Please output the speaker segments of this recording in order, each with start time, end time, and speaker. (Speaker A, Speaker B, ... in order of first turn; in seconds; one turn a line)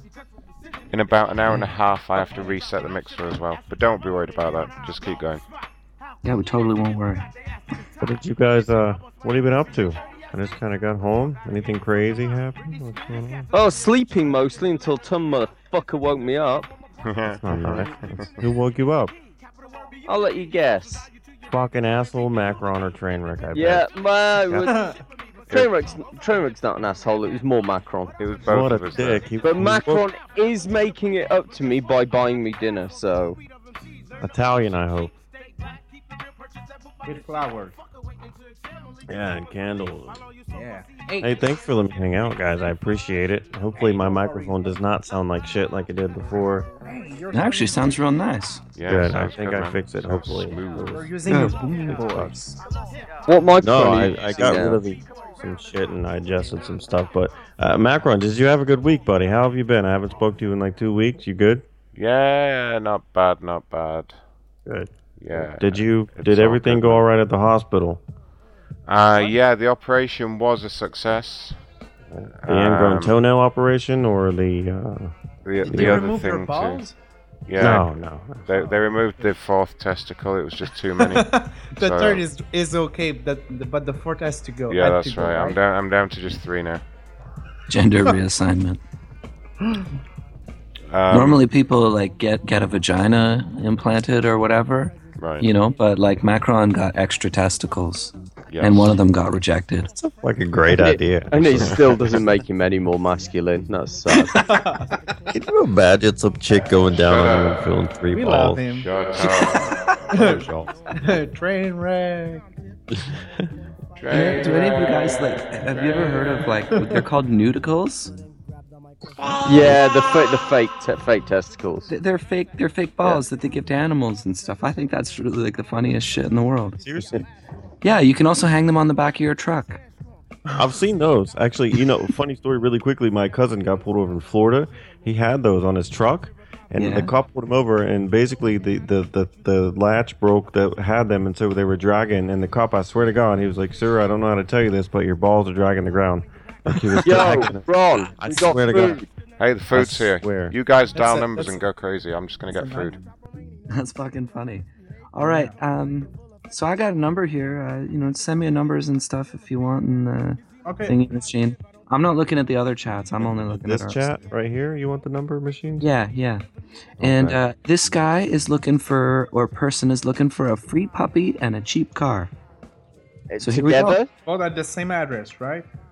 Speaker A: 0.9-5.4
Speaker B: 6.2-7.3
Speaker C: 8.0-13.5
Speaker D: 13.5-16.7
Speaker A: 17.0-18.4
Speaker C: 17.4-19.1
Speaker D: 20.1-21.1
Speaker C: 21.5-23.9
Speaker D: 23.5-24.7
Speaker C: 24.4-24.7
Speaker E: 24.6-24.9
Speaker D: 25.5-28.2
Speaker A: 28.2-29.3
Speaker C: 28.4-30.0
Speaker D: 29.4-33.4
Speaker C: 34.2-35.1
Speaker E: 37.0-37.8
Speaker C: 39.0-40.3
Speaker E: 40.5-41.4
Speaker C: 41.2-46.7
Speaker E: 43.8-44.6
Speaker E: 46.8-48.0
Speaker B: 47.3-48.7
Speaker A: 48.7-51.0
Speaker C: 48.8-51.2
Speaker E: 50.9-52.6
Speaker B: 51.2-51.6
Speaker C: 51.9-52.4
Speaker D: 53.3-54.8
Speaker C: 53.6-61.6
Speaker A: 61.9-64.2
Speaker C: 64.7-68.0
Speaker A: 65.2-67.1
Speaker A: 68.9-71.6
Speaker C: 72.1-75.1
Speaker A: 72.4-73.2
Speaker A: 75.4-76.8
Speaker E: 75.6-76.9
Speaker C: 75.7-76.1
Speaker A: 77.5-77.9
Speaker C: 77.6-78.5
Speaker A: 78.5-82.2
Speaker E: 81.0-85.6
Speaker A: 84.7-86.8
Speaker B: 87.7-88.8
Speaker A: 90.9-91.4
Speaker B: 91.1-99.9
Speaker A: 95.2-95.5
Speaker A: 98.5-99.0
Speaker C: 99.8-102.2
Speaker D: 100.7-104.4
Speaker E: 104.5-104.8
Speaker C: 105.3-108.7
Speaker A: 107.0-107.6
Speaker E: 108.1-109.3
Speaker A: 108.7-110.7
Speaker E: 109.9-110.4
Speaker E: 111.0-112.4
Speaker A: 114.0-115.1
Speaker B: 114.1-118.1
Speaker C: 119.2-119.7
Speaker D: 119.4-121.9
Speaker B: 121.9-126.9
Speaker C: 126.8-127.2
Speaker B: 127.8-129.8
Speaker C: 130.6-149.0
Speaker B: 136.8-137.1
Speaker D: 147.0-149.1
Speaker A: 149.4-153.0
Speaker C: 149.7-150.6
Speaker E: 150.9-151.6
Speaker E: 152.5-153.0
Speaker B: 153.7-164.2
Speaker E: 155.2-155.5
Speaker E: 160.6-160.9
Speaker C: 163.2-165.9
Speaker B: 165.8-166.4
Speaker B: 167.0-172.3
Speaker C: 167.0-167.4
Speaker D: 173.3-174.1
Speaker B: 173.4-174.0
Speaker E: 174.2-175.6